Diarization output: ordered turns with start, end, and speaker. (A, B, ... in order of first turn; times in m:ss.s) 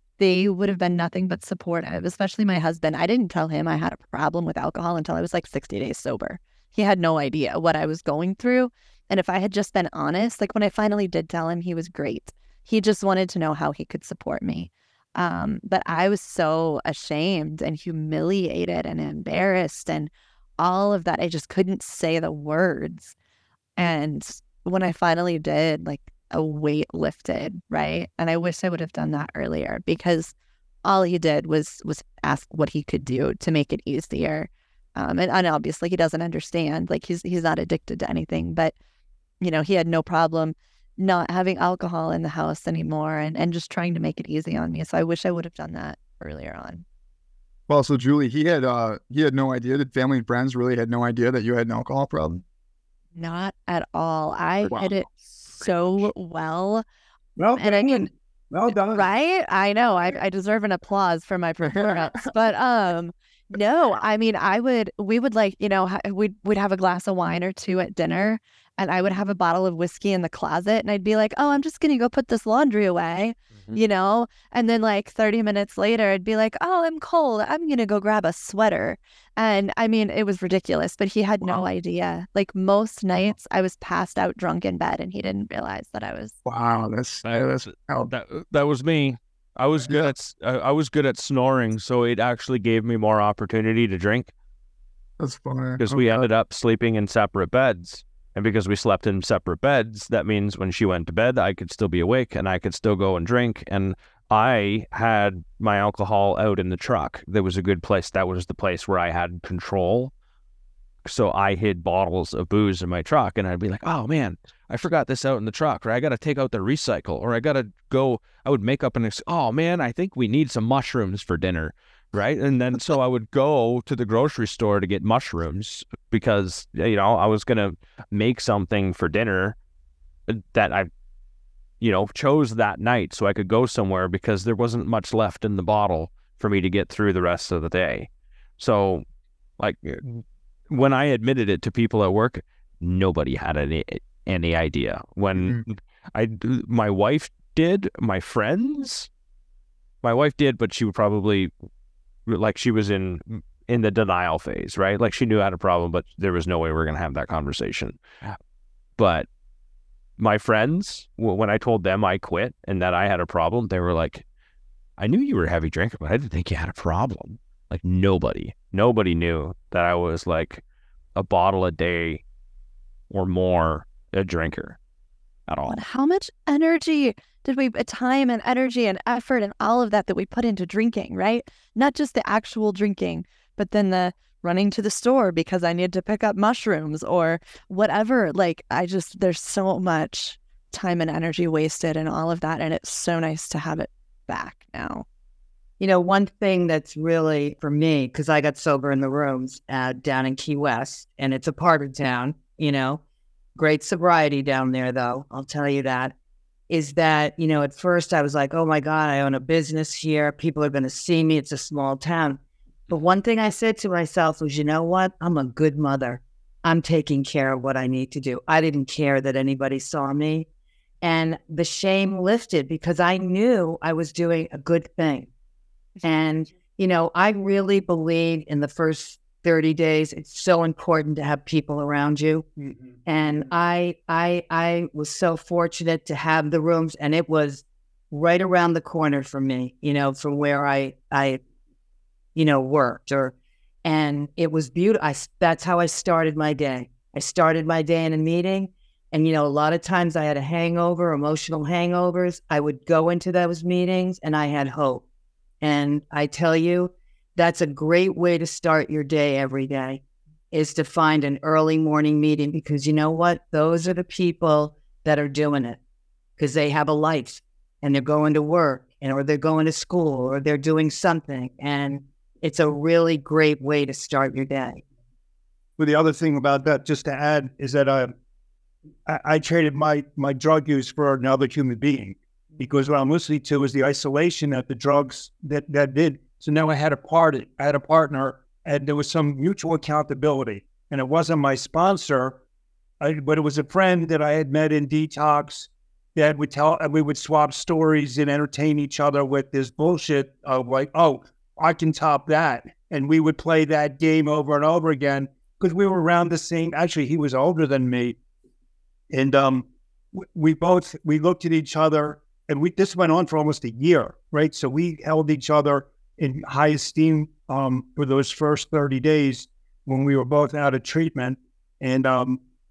0:00.2-0:23.1 A
0:23.8-0:38.7 A
0:39.4-0:46.8 A
0:47.7-0:52.4 B
0:53.1-0:56.8 A
0:54.6-0:54.9 B
0:57.4-0:59.1 C
0:57.6-0:58.1 A
0:58.9-1:26.4 A
1:01.6-1:02.2 B
1:26.4-1:28.1 B
1:27.7-1:34.3 D
1:29.8-1:30.1 B
1:35.2-1:36.3 B
1:35.8-1:50.1 D
1:51.0-2:09.6 D
2:10.3-2:10.9 D
2:11.8-2:19.0 D
2:19.6-2:29.1 D
2:25.4-2:25.6 B
2:30.0-2:31.5 D
2:32.3-2:38.4 D
2:39.0-2:39.3 D
2:40.2-2:44.2 D
2:45.0-2:50.6 D
2:51.2-2:52.2 D
2:53.1-2:54.8 D
2:55.5-2:55.8 D
2:55.6-3:15.0 A
3:15.8-3:23.0 E
3:23.6-3:26.1 E
3:26.7-3:40.5 E
3:41.0-3:45.3 E
3:46.0-3:52.4 E
3:52.6-3:52.9 C
3:53.0-4:01.4 E
4:02.3-4:03.3 E
4:03.8-4:15.0 E
4:15.6-4:20.0 E
4:20.5-4:25.8 E
4:26.4-4:34.8 E
4:35.8-4:38.1 C
4:39.0-4:52.4 C
4:53.0-5:08.2 C
5:09.1-5:22.4 C